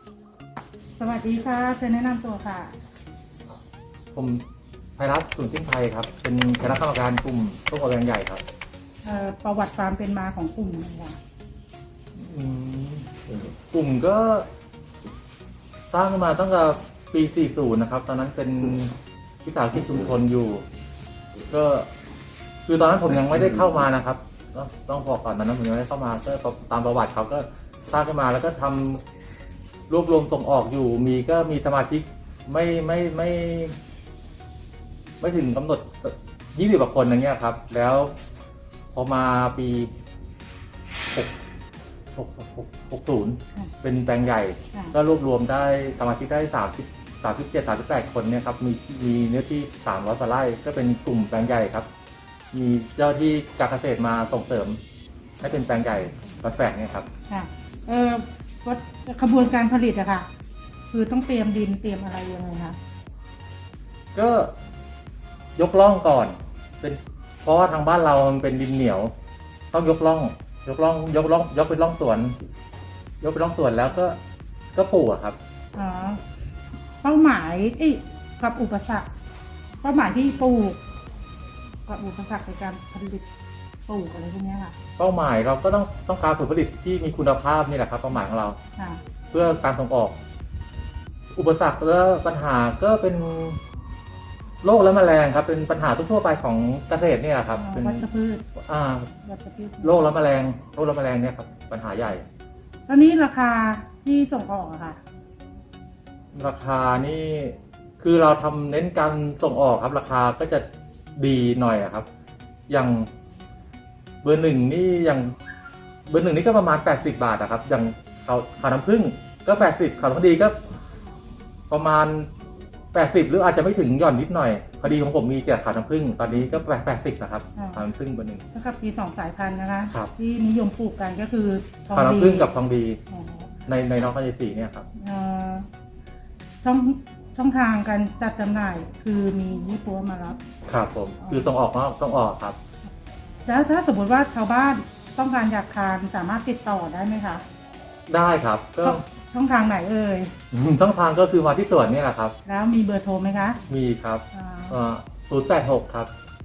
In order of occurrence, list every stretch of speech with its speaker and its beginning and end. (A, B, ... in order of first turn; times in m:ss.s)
0:01.0-0:02.7 A
0:04.1-0:04.4 B
0:05.0-0:08.4 B
0:09.0-0:11.2 A
0:12.2-0:14.5 B
0:15.9-0:20.6 B
0:21.5-0:21.9 B
0:22.7-0:29.0 B
0:29.9-0:33.8 B
0:35.2-0:38.1 B
0:38.9-0:39.9 B
0:42.2-0:51.9 B
0:52.5-0:54.8 B
0:55.4-0:57.1 B
0:57.3-1:00.3 A
1:00.9-1:02.8 A
1:04.1-1:04.5 B
1:05.6-1:09.1 B
1:09.7-1:12.4 B
1:13.2-1:14.2 B
1:14.7-1:15.4 B
1:15.8-1:16.2 A
1:17.0-1:19.1 A
1:19.8-1:20.8 A
1:21.9-1:23.2 A
1:23.9-1:24.8 A
1:25.0-1:28.6 B
1:29.3-1:30.2 B
1:31.3-1:33.6 B
1:34.6-1:38.0 B
1:37.6-1:38.4 A
1:38.7-1:39.1 B
1:39.2-1:40.1 A
1:39.8-1:42.3 B
1:42.9-1:45.0 A
1:46.3-1:50.6 B
1:51.2-1:52.1 B
1:52.7-1:53.1 B
1:54.2-1:55.4 B
1:56.1-2:00.6 B
2:01.7-2:02.3 B
2:02.9-2:08.4 B
2:08.5-2:12.5 A
2:11.9-2:13.0 B
2:13.1-2:13.5 A
2:13.7-2:14.9 B
2:15.0-2:15.7 A
2:16.6-2:20.4 A
2:20.7-2:22.6 B
2:21.2-2:21.5 A
2:23.5-2:27.4 A
2:28.1-2:29.0 B
2:28.8-2:30.3 A
2:30.5-2:32.4 B
2:32.5-2:33.6 A
2:33.7-2:36.1 B
2:34.3-2:34.8 A